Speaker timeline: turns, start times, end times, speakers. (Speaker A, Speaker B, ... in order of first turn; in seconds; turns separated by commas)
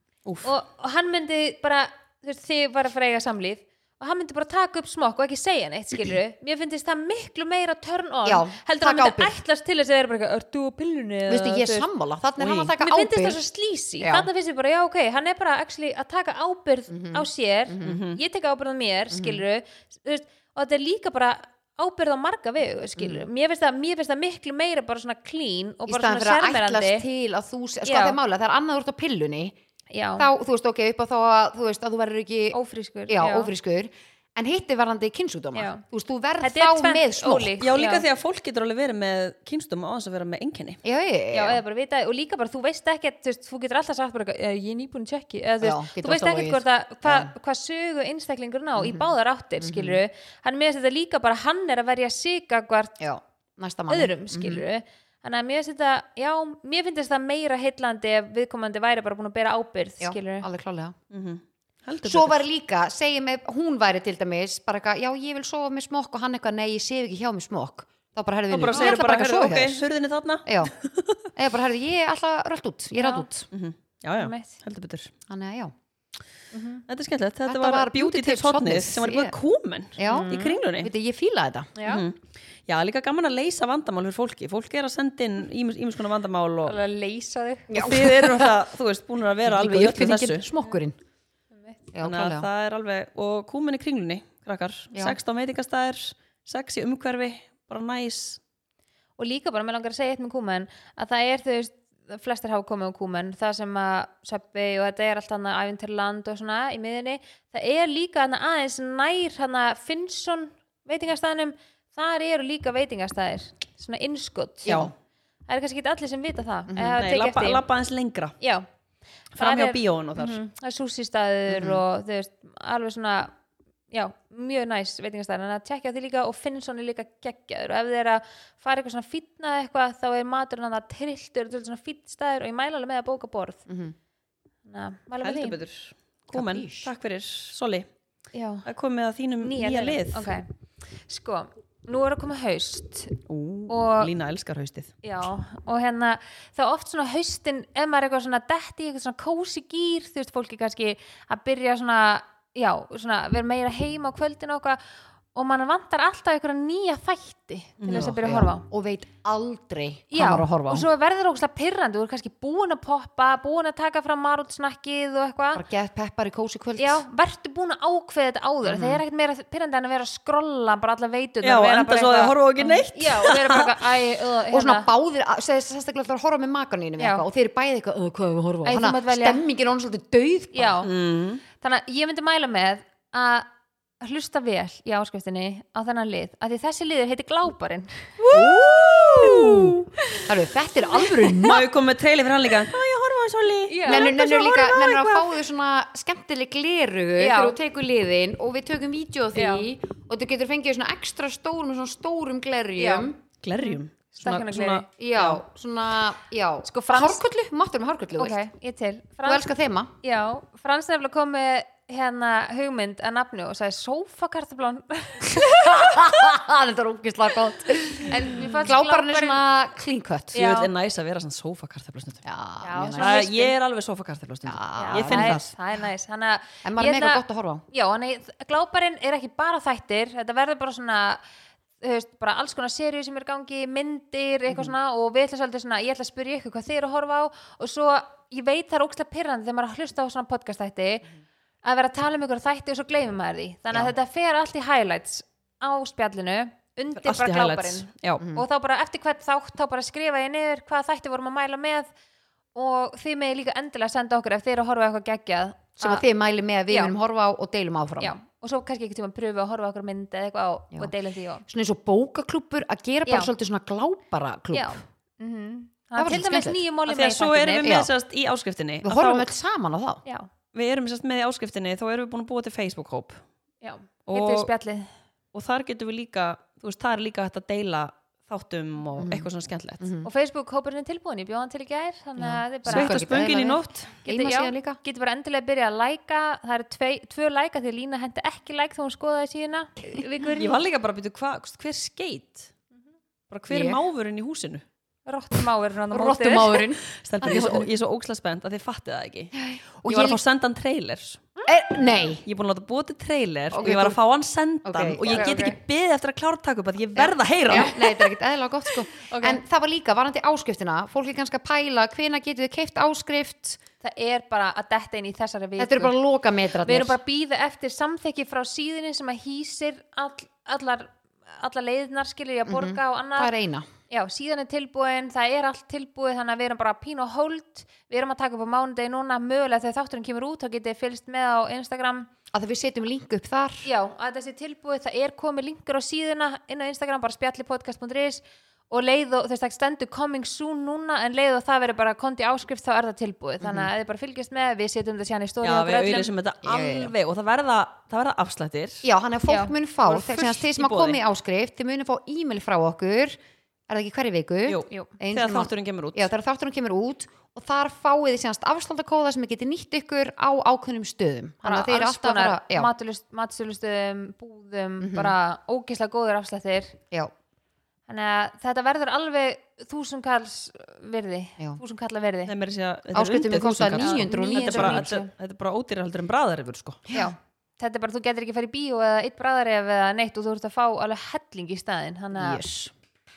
Speaker A: 0.2-0.5, Speaker B: 0.4-11.9, Speaker C: 8.2-9.4, Speaker C: 11.3-13.4, Speaker A: 12.4-12.7, Speaker B: 12.8-27.1, Speaker C: 14.0-14.3, Speaker C: 16.9-18.0, Speaker A: 17.8-18.2, Speaker C: 19.1-19.4, Speaker C: 23.0-23.3, Speaker C: 25.9-29.6, Speaker B: 27.9-28.2, Speaker B: 29.9-30.3, Speaker C: 30.2-32.6, Speaker B: 32.5-33.5, Speaker C: 33.1-37.6, Speaker B: 35.5-35.8, Speaker B: 36.4-38.0, Speaker A: 37.6-40.8, Speaker C: 40.8-41.6, Speaker B: 41.3-53.0, Speaker C: 45.6-47.3, Speaker C: 48.8-50.0, Speaker C: 53.0-54.6, Speaker B: 53.9-60.5, Speaker C: 60.0-61.0, Speaker A: 61.1-62.4, Speaker C: 62.0-69.8, Speaker A: 68.5-71.2, Speaker C: 70.5-70.7, Speaker C: 71.3-73.5, Speaker B: 73.0-73.3, Speaker A: 73.5-75.1, Speaker B: 74.2-74.6, Speaker C: 75.3-75.7, Speaker B: 76.5-76.8, Speaker A: 76.9-80.9, Speaker C: 77.5-79.3, Speaker C: 80.0-81.7, Speaker B: 80.0-80.6, Speaker B: 81.8-82.0, Speaker A: 81.9-86.8, Speaker B: 86.7-87.8, Speaker C: 87.7-88.6, Speaker A: 87.8-90.4, Speaker C: 89.5-91.0, Speaker B: 91.5-91.8, Speaker C: 91.9-92.5, Speaker A: 92.0-98.4, Speaker B: 99.2-114.9, Speaker C: 114.7-114.9, Speaker A: 114.7-114.9, Speaker B: 115.5-117.7, Speaker C: 116.7-117.0, Speaker A: 117.0-118.4, Speaker B: 118.4-118.7, Speaker B: 119.3-123.3, Speaker A: 119.4-120.4, Speaker C: 121.5-121.8, Speaker B: 123.9-133.7, Speaker C: 133.7-134.0, Speaker B: 134.7-135.6, Speaker A: 135.2-137.9, Speaker C: 136.3-136.9, Speaker B: 138.3-138.7, Speaker A: 138.7-140.3, Speaker B: 139.4-140.5, Speaker B: 141.1-144.1, Speaker A: 143.3-144.9, Speaker B: 145.0-154.8, Speaker B: 155.3-158.7, Speaker A: 157.8-158.2, Speaker C: 157.9-160.9, Speaker B: 160.1-165.6, Speaker C: 165.5-167.0, Speaker B: 166.8-174.9, Speaker C: 168.6-169.0, Speaker A: 171.4-173.8, Speaker C: 174.5-180.9, Speaker B: 177.0-177.2, Speaker B: 178.7-179.4, Speaker B: 180.5-180.9, Speaker A: 180.8-181.4, Speaker B: 181.6-183.5, Speaker B: 184.0-188.2, Speaker A: 188.2-189.9, Speaker C: 188.3-191.6, Speaker B: 191.0-191.5, Speaker A: 191.4-195.4, Speaker B: 193.7-194.1, Speaker C: 193.9-203.2, Speaker B: 197.2-197.6, Speaker B: 199.3-199.7, Speaker B: 202.8-204.9, Speaker A: 203.4-205.4, Speaker C: 205.0-208.4, Speaker B: 206.6-207.2, Speaker B: 208.2-216.0, Speaker C: 209.2-209.9, Speaker C: 215.2-220.4, Speaker B: 218.1-219.4, Speaker B: 220.3-220.7, Speaker A: 220.3-222.2, Speaker C: 222.2-223.2, Speaker B: 222.6-223.5, Speaker A: 223.0-225.5, Speaker C: 224.5-225.4, Speaker B: 224.8-231.2, Speaker C: 226.6-227.7, Speaker B: 231.8-241.1, Speaker B: 241.6-251.9, Speaker A: 246.9-248.2, Speaker C: 248.2-248.5, Speaker B: 252.6-256.0, Speaker C: 255.8-258.1, Speaker B: 258.0-261.4, Speaker C: 261.5-264.8, Speaker B: 264.5-267.8, Speaker C: 266.0-266.6, Speaker A: 266.9-269.3, Speaker C: 267.6-267.9, Speaker C: 268.8-270.0, Speaker A: 270.5-273.2, Speaker B: 273.6-274.9, Speaker A: 274.1-274.5, Speaker A: 275.3-279.9, Speaker C: 279.0-279.3, Speaker C: 279.8-280.1, Speaker B: 280.0-283.1, Speaker C: 282.2-284.8, Speaker A: 282.7-283.9, Speaker B: 284.0-290.6, Speaker A: 290.3-292.5, Speaker A: 293.3-294.6, Speaker C: 293.5-293.8, Speaker B: 295.1-296.7, Speaker C: 295.9-297.7, Speaker A: 296.9-301.2, Speaker C: 299.4-300.2, Speaker C: 301.5-302.2, Speaker A: 302.2-308.1, Speaker C: 303.5-304.0, Speaker C: 304.6-305.3, Speaker B: 305.0-305.6, Speaker C: 307.0-313.6, Speaker B: 307.5-307.8, Speaker B: 309.1-309.4, Speaker B: 313.8-315.9, Speaker C: 315.6-317.0, Speaker B: 316.6-323.3, Speaker C: 322.5-323.7, Speaker B: 323.9-332.1, Speaker C: 332.3-333.7, Speaker B: 333.6-346.1, Speaker C: 343.4-343.7, Speaker A: 345.4-348.9, Speaker C: 346.4-346.9, Speaker C: 348.8-353.2, Speaker B: 349.3-349.6, Speaker A: 349.9-351.0, Speaker C: 353.7-362.7, Speaker A: 354.5-356.1, Speaker B: 361.4-366.8, Speaker C: 364.8-365.1, Speaker B: 367.9-372.3, Speaker A: 372.3-376.8, Speaker C: 372.9-374.9, Speaker B: 373.8-375.1, Speaker B: 376.9-382.4, Speaker C: 382.1-382.7